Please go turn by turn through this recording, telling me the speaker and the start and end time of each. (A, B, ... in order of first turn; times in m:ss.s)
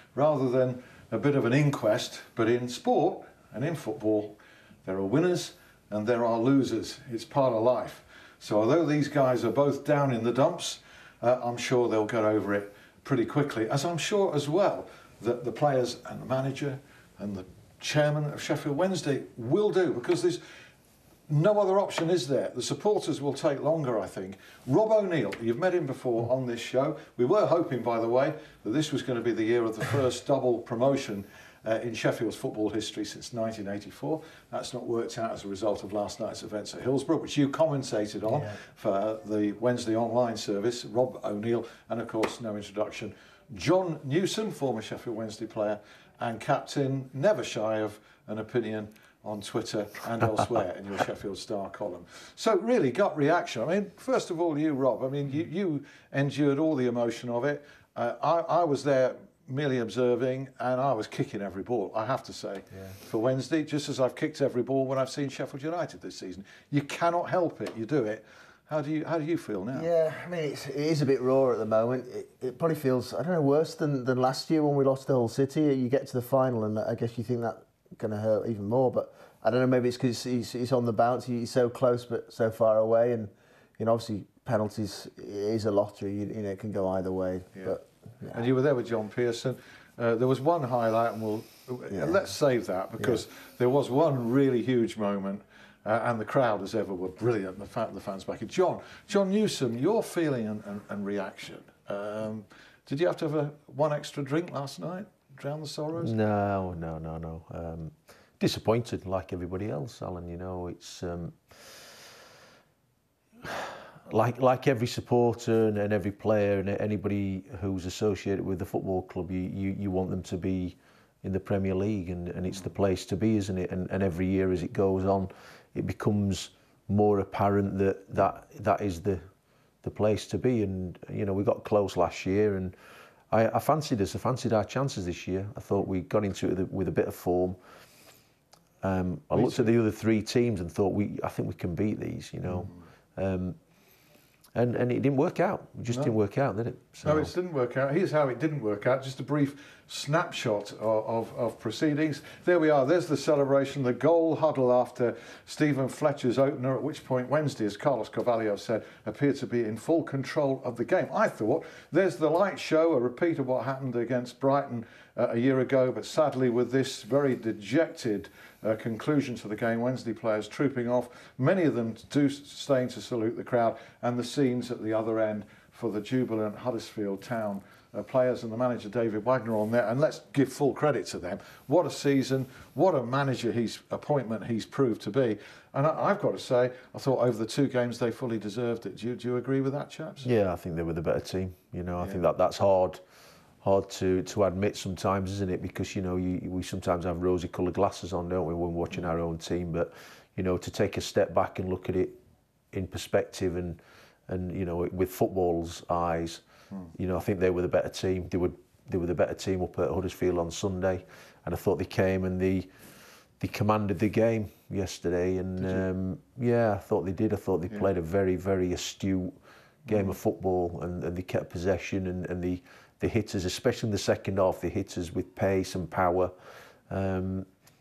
0:00.1-0:20.4 A
0:21.3-1:09.9 A
1:09.7-1:28.4 B
1:28.3-1:46.1 A
1:31.9-1:32.2 B
1:46.0-1:51.4 C
1:53.4-2:09.2 C
2:09.8-2:12.8 C
2:13.3-2:17.6 C
2:18.8-2:23.6 C
2:19.3-2:19.8 A
2:22.4-2:22.7 A
2:24.5-2:27.3 C
2:25.9-2:26.2 A
2:27.0-3:10.3 A
3:10.2-3:13.0 C
3:12.0-3:12.3 A
3:13.6-3:22.2 C
3:22.7-3:32.7 C
3:33.4-3:39.4 C
3:39.9-3:40.2 A
3:39.9-3:46.3 C
3:46.9-3:47.5 C